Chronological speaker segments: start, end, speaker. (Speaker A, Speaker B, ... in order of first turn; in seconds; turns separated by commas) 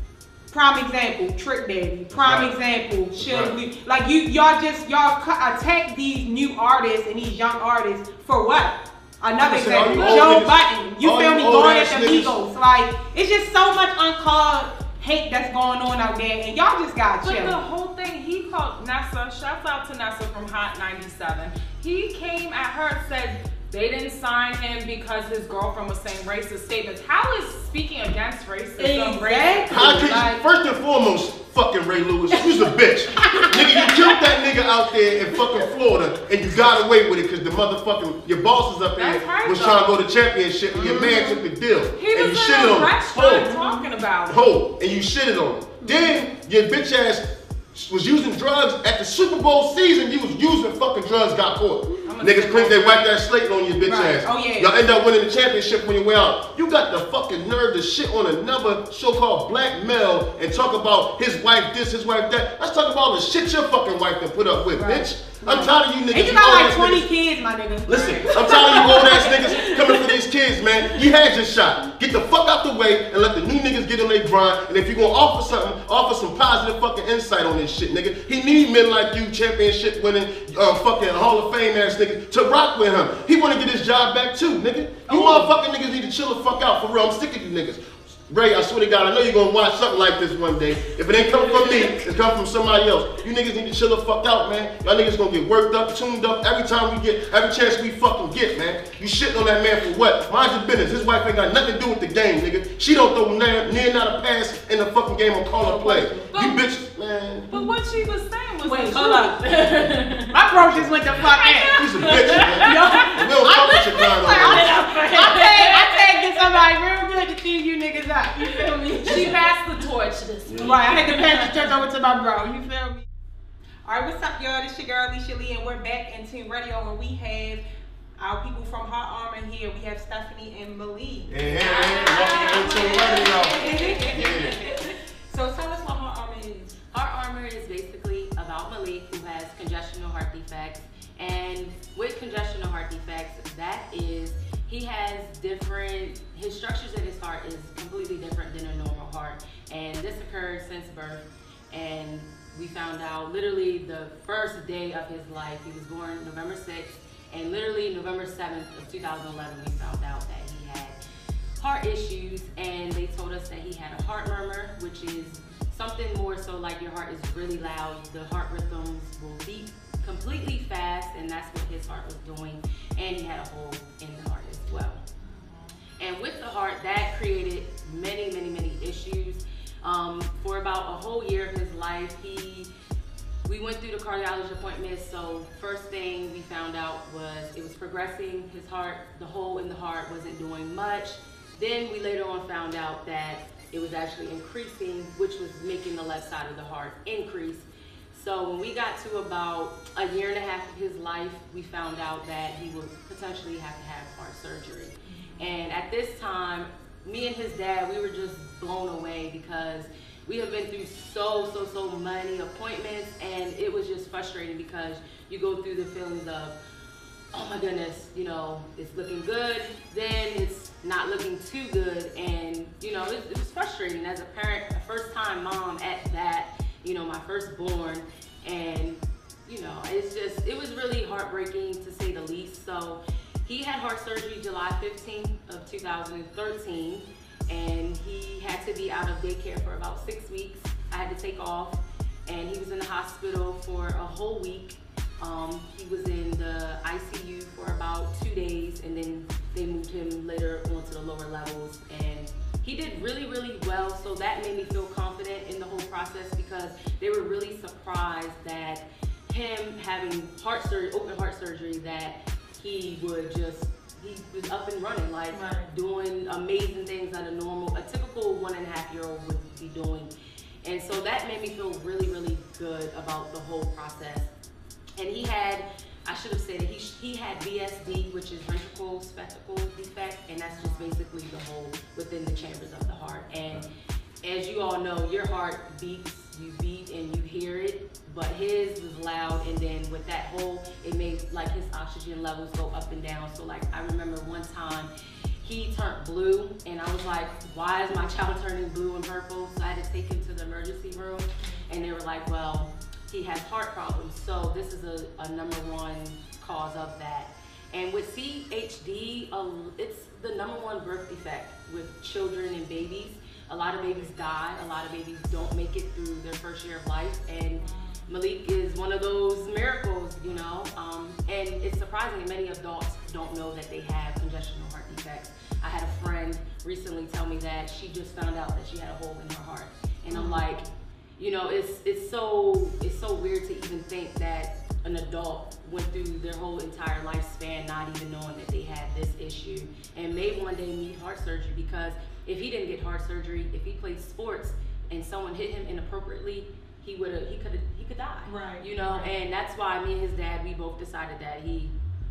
Speaker A: 0.5-17.6, Speaker B: 2.1-2.5, Speaker B: 3.2-3.5, Speaker B: 9.4-12.4, Speaker C: 9.9-10.3, Speaker C: 17.2-29.7, Speaker A: 28.8-30.4, Speaker B: 29.7-43.5, Speaker A: 33.3-33.8, Speaker C: 39.0-39.9, Speaker A: 40.8-41.4, Speaker C: 42.0-44.5, Speaker A: 43.4-43.9, Speaker B: 44.3-67.1, Speaker A: 45.8-46.1, Speaker C: 52.1-53.1, Speaker A: 53.9-54.7, Speaker A: 64.8-69.1, Speaker B: 67.9-107.5, Speaker C: 68.0-70.0, Speaker A: 85.1-85.5, Speaker A: 105.6-106.3, Speaker C: 106.3-106.6, Speaker C: 107.5-110.3, Speaker A: 108.6-109.4, Speaker A: 110.3-119.5, Speaker B: 110.5-111.0, Speaker C: 111.2-113.1, Speaker B: 111.7-114.8, Speaker C: 114.3-116.4, Speaker C: 119.0-121.7, Speaker B: 119.1-119.3, Speaker B: 120.5-120.8, Speaker A: 120.6-123.0, Speaker A: 123.8-127.6, Speaker A: 128.2-136.8, Speaker B: 131.3-134.6, Speaker D: 131.7-134.1, Speaker D: 136.9-161.0, Speaker D: 161.6-175.0, Speaker C: 175.3-175.8, Speaker D: 176.0-182.7, Speaker D: 183.4-216.6, Speaker A: 205.1-205.4, Speaker D: 217.3-270.1, Speaker A: 265.3-265.7, Speaker D: 270.6-274.3, Speaker D: 275.0-283.7, Speaker D: 284.2-294.9, Speaker D: 295.4-330.6, Speaker A: 330.1-330.4, Speaker D: 331.2-351.7, Speaker A: 348.3-349.1